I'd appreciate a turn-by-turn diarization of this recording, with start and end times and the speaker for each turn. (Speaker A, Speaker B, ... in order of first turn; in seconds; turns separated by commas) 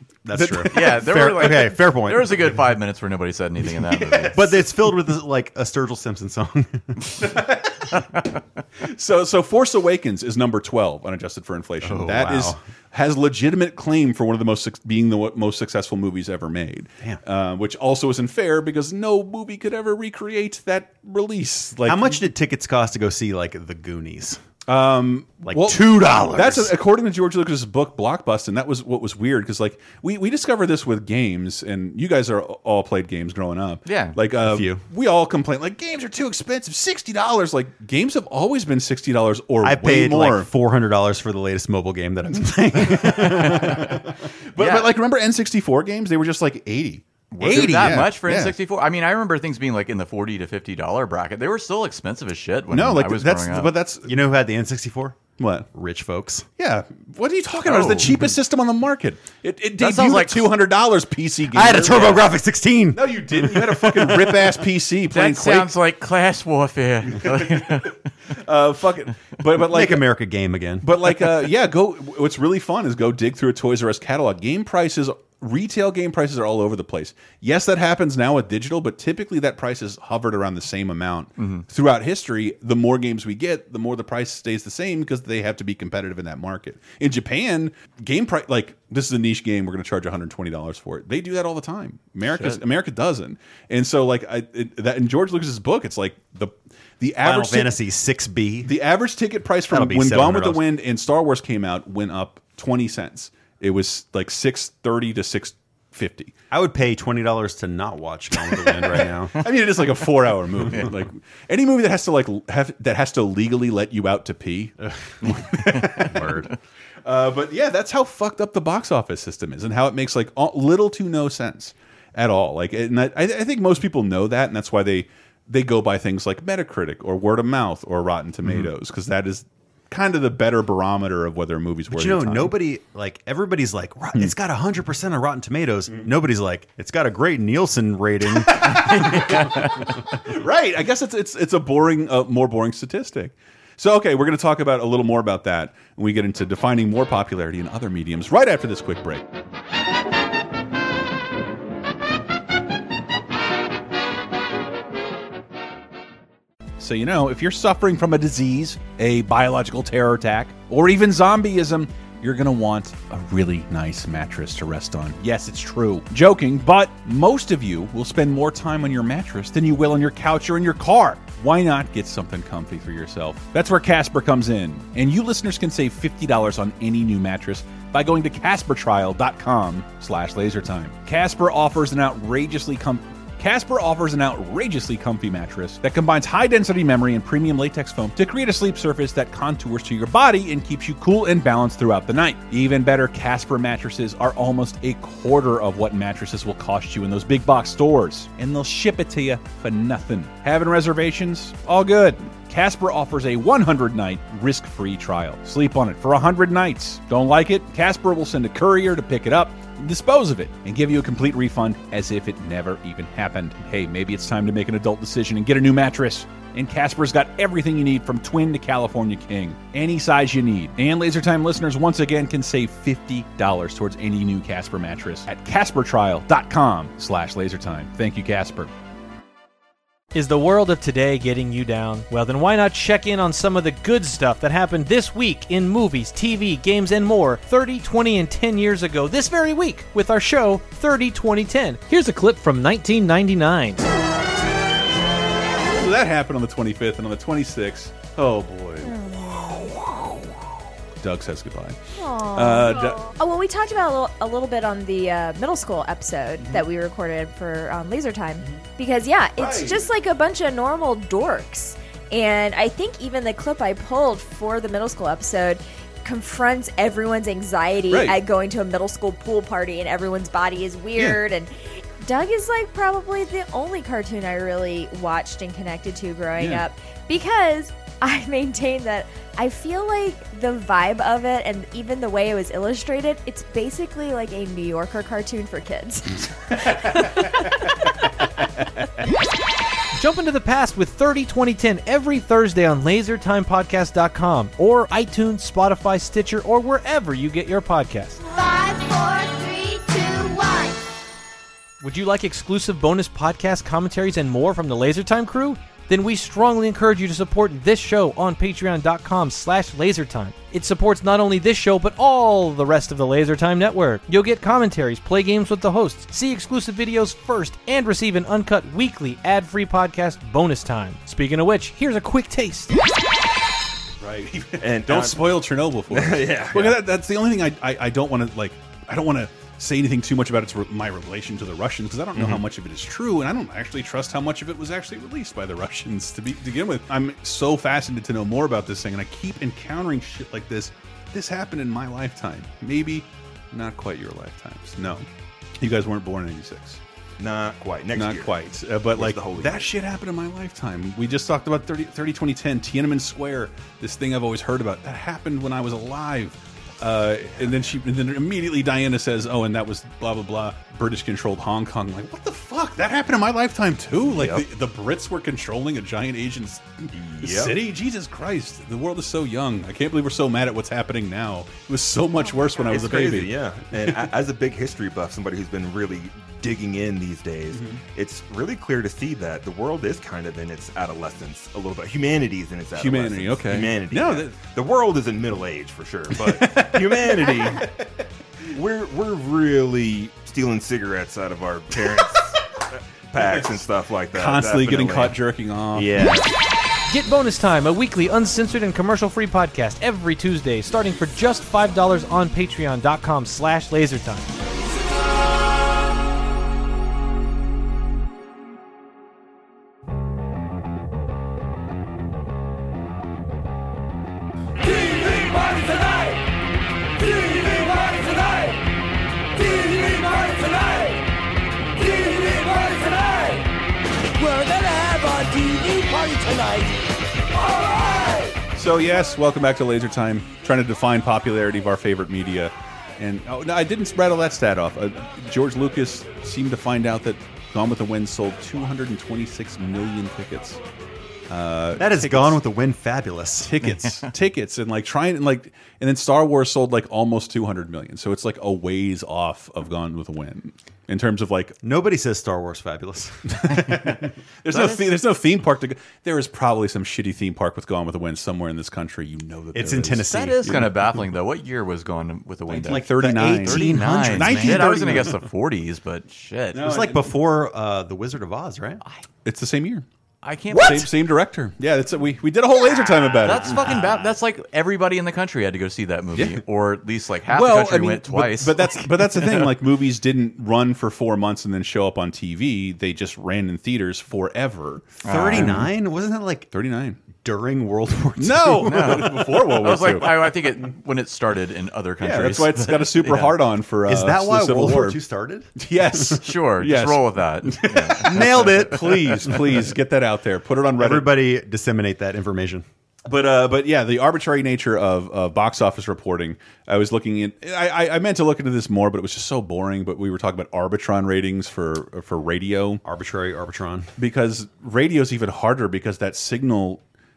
Speaker A: 0.2-2.5, Speaker B: 0.3-1.2, Speaker C: 0.7-4.4, Speaker B: 3.9-4.7, Speaker A: 4.3-7.0, Speaker B: 7.2-8.0, Speaker B: 8.8-22.2, Speaker A: 11.8-12.6, Speaker A: 21.8-24.4, Speaker B: 24.6-40.5, Speaker A: 25.5-26.7, Speaker C: 33.9-34.2, Speaker A: 34.4-34.8, Speaker A: 39.6-44.1, Speaker B: 43.1-43.8, Speaker C: 43.5-43.9, Speaker B: 44.5-48.6, Speaker C: 44.6-44.9, Speaker C: 47.3-53.7, Speaker B: 52.7-54.1, Speaker A: 54.0-55.2, Speaker B: 55.4-55.7, Speaker A: 55.7-56.5, Speaker B: 56.6-62.3, Speaker C: 57.6-58.2, Speaker C: 59.8-60.5, Speaker A: 61.5-64.6, Speaker B: 62.9-65.7, Speaker C: 65.1-68.0, Speaker B: 67.1-70.1, Speaker A: 69.5-71.4, Speaker B: 70.8-97.8, Speaker C: 81.4-81.6, Speaker A: 97.2-98.8, Speaker B: 98.6-106.3, Speaker A: 99.7-100.7, Speaker A: 106.5-109.4, Speaker B: 109.3-116.5, Speaker A: 115.2-116.5, Speaker B: 117.0-132.5, Speaker A: 131.9-139.4, Speaker B: 138.4-149.2, Speaker C: 139.0-139.6, Speaker B: 156.8-228.7, Speaker D: 230.1-243.8, Speaker B: 245.6-250.3, Speaker E: 248.8-249.7, Speaker B: 251.0-251.8, Speaker E: 252.0-287.8, Speaker B: 252.3-253.1, Speaker B: 259.4-259.9, Speaker B: 267.9-268.2, Speaker B: 270.9-271.2, Speaker B: 276.4-276.6, Speaker D: 289.9-298.2, Speaker F: 298.2-300.8, Speaker D: 301.8-322.7, Speaker B: 324.0-345.1, Speaker G: 324.6-325.4, Speaker G: 325.9-326.8, Speaker G: 332.1-332.4, Speaker B: 345.6-346.8, Speaker G: 347.2-348.4, Speaker B: 347.9-374.1, Speaker G: 348.9-349.7, Speaker G: 364.1-364.4, Speaker G: 366.9-367.6, Speaker G: 372.6-387.7, Speaker B: 377.5-377.8, Speaker B: 382.7-384.3, Speaker B: 386.1-387.6, Speaker G: 388.5-395.2, Speaker B: 393.2-393.4, Speaker B: 394.1-395.9, Speaker G: 395.7-396.3, Speaker D: 396.9-404.3, Speaker D: 424.2-426.6, Speaker B: 428.5-440.6, Speaker B: 441.3-442.4, Speaker A: 441.8-443.5, Speaker B: 443.4-451.5, Speaker A: 451.6-454.0, Speaker B: 453.3-460.1, Speaker A: 459.5-461.0, Speaker C: 460.1-466.8, Speaker B: 462.5-465.1, Speaker A: 462.7-465.2, Speaker B: 466.5-467.1, Speaker A: 466.5-468.8, Speaker B: 469.2-469.8, Speaker C: 470.2-470.9, Speaker B: 470.5-473.8, Speaker C: 473.2-479.4, Speaker A: 473.3-474.1, Speaker B: 477.3-485.7, Speaker C: 485.0-485.6, Speaker A: 485.0-486.5, Speaker B: 486.5-487.0, Speaker A: 487.1-489.4, Speaker B: 488.2-490.3, Speaker C: 488.6-493.4, Speaker B: 492.0-495.0, Speaker A: 493.9-495.5, Speaker B: 495.6-501.1, Speaker C: 496.1-499.1, Speaker A: 498.0-499.4, Speaker A: 500.8-502.6, Speaker B: 503.1-512.8, Speaker A: 512.8-513.9, Speaker B: 514.0-516.8